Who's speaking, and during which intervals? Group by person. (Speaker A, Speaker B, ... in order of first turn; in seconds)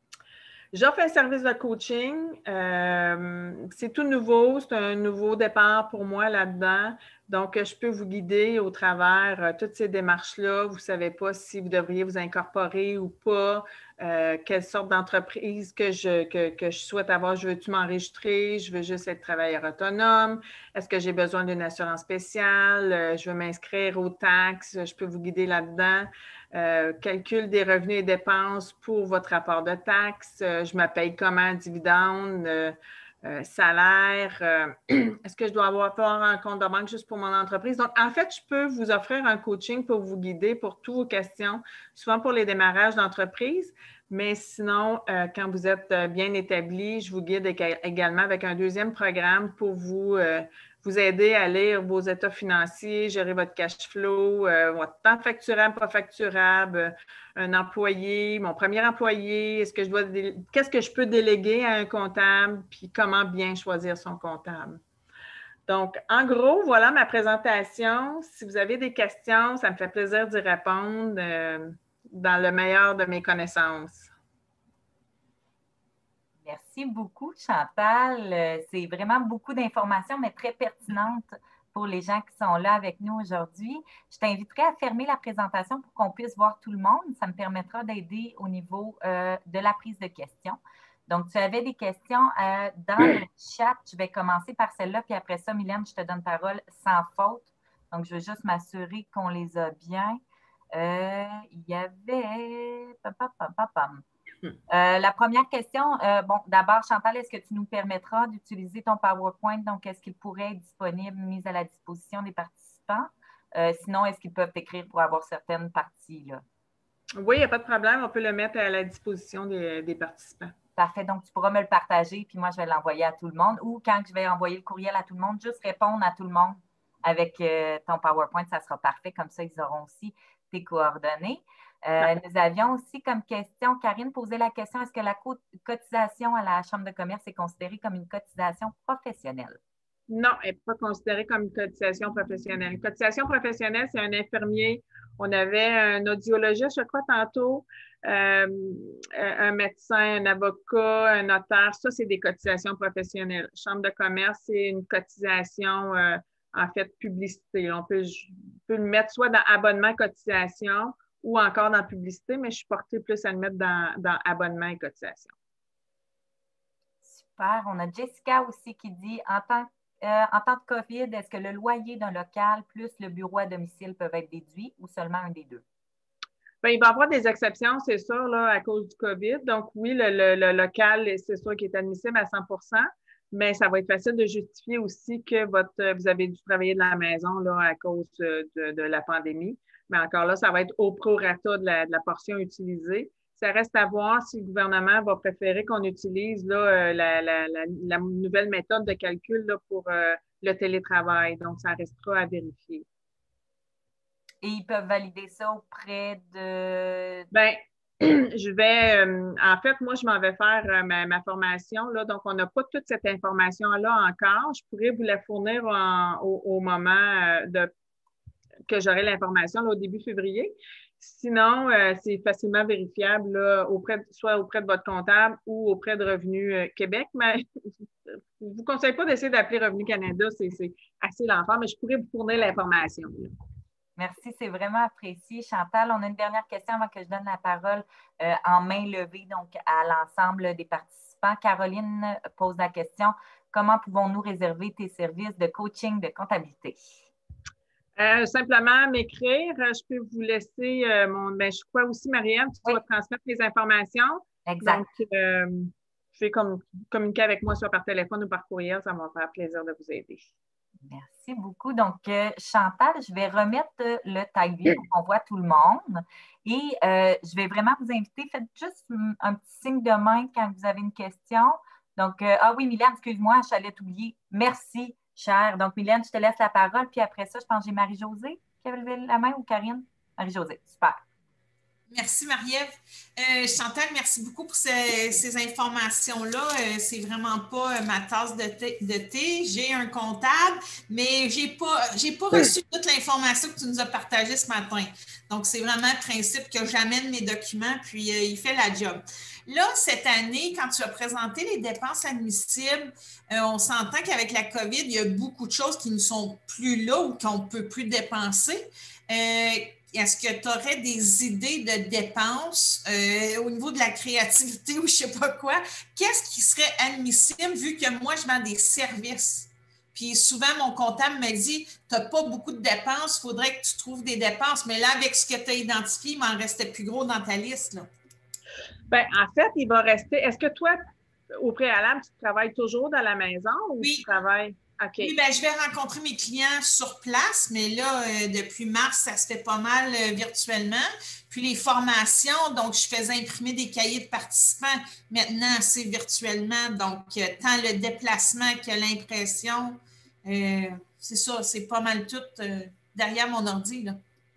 Speaker A: 0.7-64.8, 65.7-74.1, 117.2-120.5, 140.1-165.3, 176.6-202.8, 207.3-217.7, 218.7-227.4, 228.4-233.3, 248.0-260.3, 328.9-330.8, 331.4-335.1
Speaker B: 76.4-100.2, 100.7-104.0, 104.7-116.4, 120.8-139.6, 167.0-175.6, 204.4-207.3, 234.0-246.8, 254.4-254.8, 260.8-281.0
Speaker C: 281.9-327.9, 333.8-334.1, 335.0-354.0